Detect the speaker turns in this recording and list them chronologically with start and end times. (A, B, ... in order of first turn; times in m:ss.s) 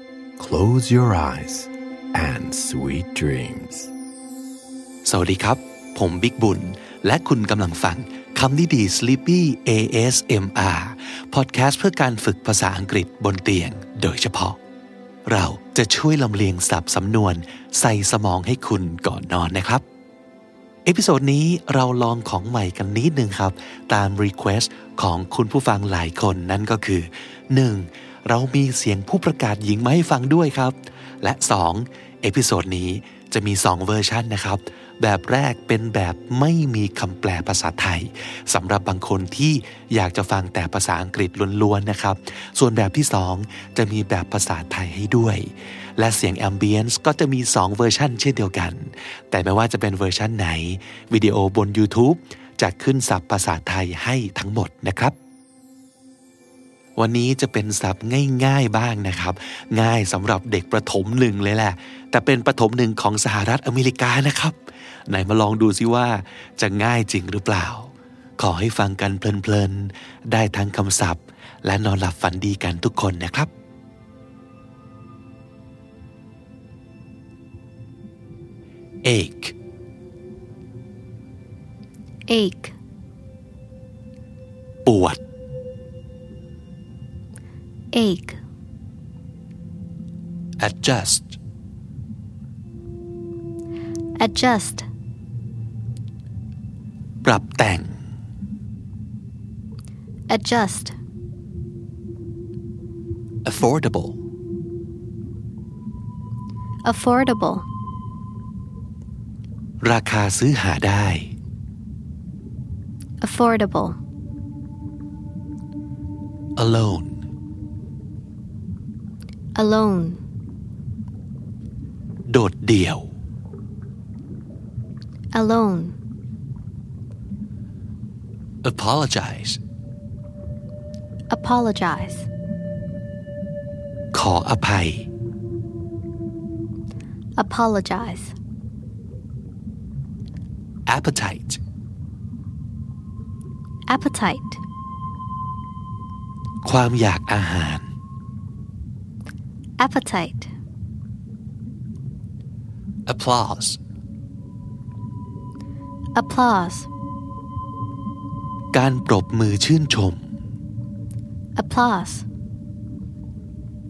0:00.4-0:03.9 A
0:05.0-0:14.6 B
0:15.3-0:19.8 B
0:20.8-0:55.2 B
0:57.0-1:04.6 B
1:05.1-1:13.5 B
1:19.0-1:19.6 B
1:22.3-1:22.8 C
1:24.8-1:25.2 B
1:27.9-1:28.4 C
1:30.6-1:31.4 B
1:34.2-1:34.9 C
1:37.2-1:38.0 B
1:40.3-1:41.0 C
1:43.4-1:44.2 B
1:46.8-1:47.7 C
1:49.8-1:51.4 B
1:53.2-1:54.0 C
1:56.6-1:57.2 B
1:59.6-2:00.2 C
2:02.3-2:03.1 B
2:05.3-2:06.0 C
2:08.6-2:09.6 B
2:11.3-2:12.3 C
2:14.1-2:15.1 B
2:17.4-2:18.4 C
2:20.9-2:21.6 B
2:23.9-2:24.6 C
2:26.6-2:27.9 B
2:29.8-2:30.5 C
2:33.1-2:33.8 B
2:36.2-2:36.9 C
2:38.7-2:40.3 B
2:41.6-2:42.3 C